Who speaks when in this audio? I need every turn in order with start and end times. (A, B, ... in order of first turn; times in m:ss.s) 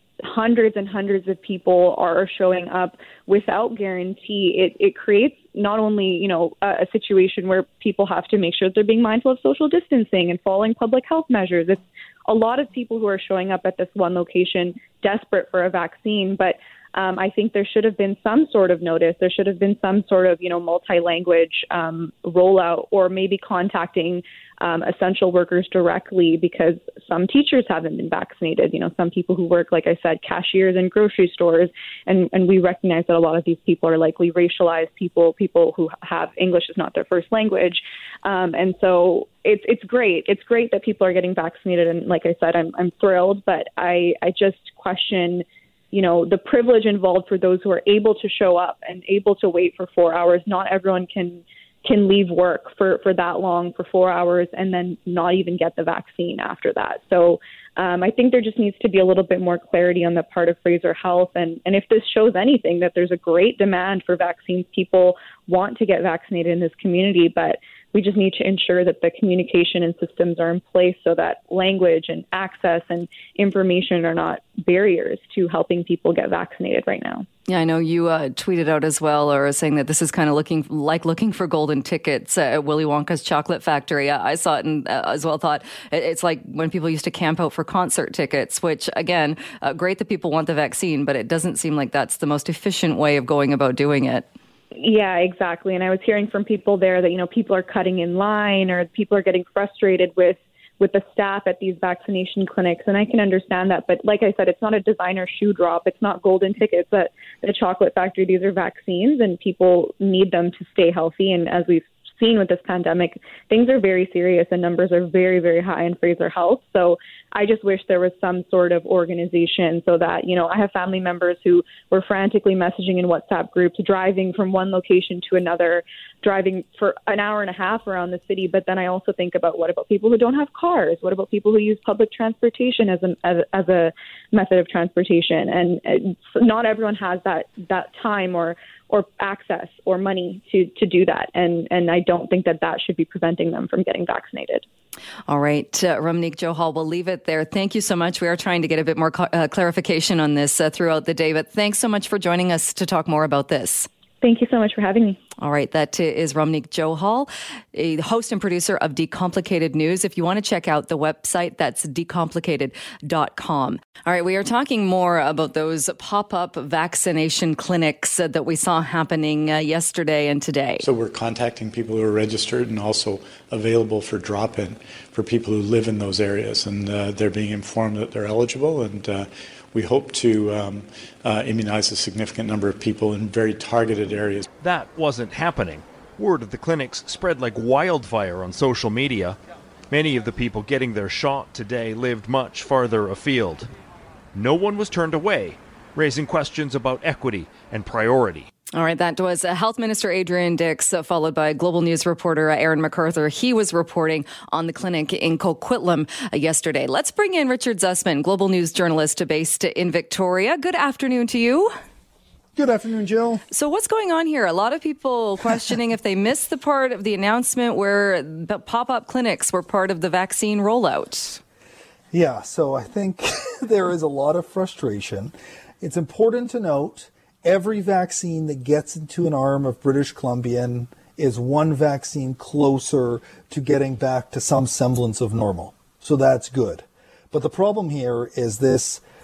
0:00.2-1:17.3 A
1:17.5-1:34.3 B
1:34.8-2:24.6 A
2:25.3-2:33.9 B
2:34.2-2:35.2 A
2:35.4-2:50.8 B
2:50.8-3:04.4 C
3:04.6-3:09.4 D
3:09.9-3:13.7 D
3:14.3-3:18.5 D
3:18.7-3:31.7 B
3:32.6-3:33.4 E
3:33.5-3:41.4 B
3:42.1-3:59.0 E